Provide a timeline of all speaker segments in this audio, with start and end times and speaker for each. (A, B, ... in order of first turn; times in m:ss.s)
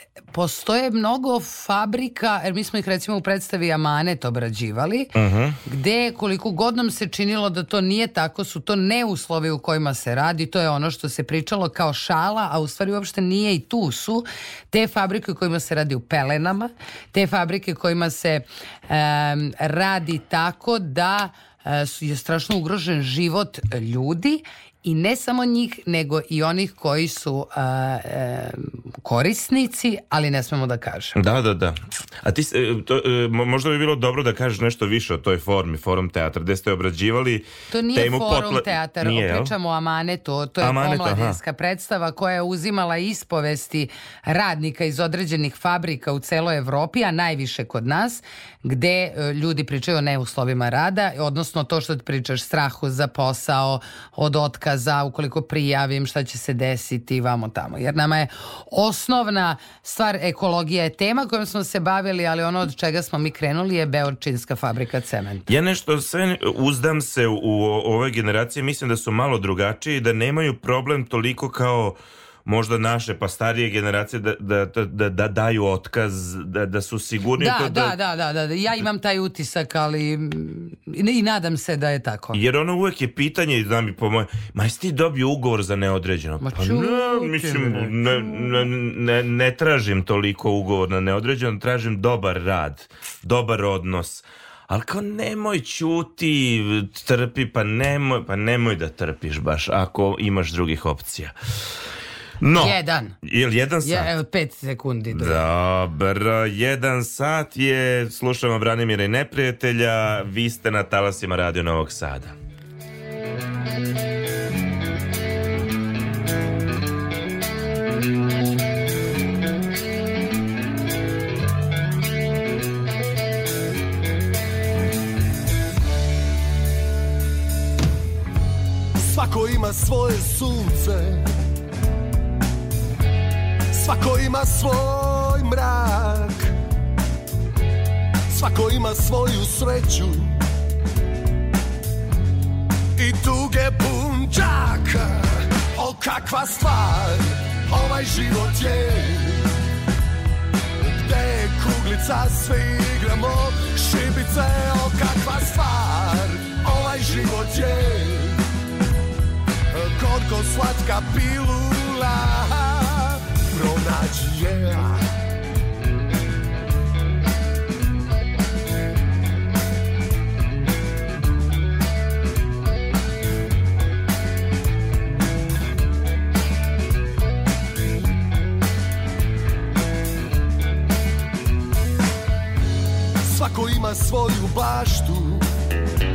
0:00.3-0:05.1 A
0:05.2-0:05.6 B
0:05.7-0:31.2 A
0:31.2-0:39.5 B
0:37.7-1:05.5 A
0:40.6-0:41.4 B
1:05.5-1:18.0 B
1:17.4-1:22.4 A
1:22.3-1:41.4 B
1:26.4-1:28.7 A
1:42.4-1:44.1 B
1:42.6-1:43.2 A
1:43.8-1:45.4 A
1:45.1-1:52.4 B
2:09.0-2:11.2 C
2:13.7-2:16.5 C
2:18.3-2:20.4 C
2:23.0-2:29.4 C
2:30.9-2:38.4 C
2:39.7-2:45.0 C
3:03.2-3:05.4 C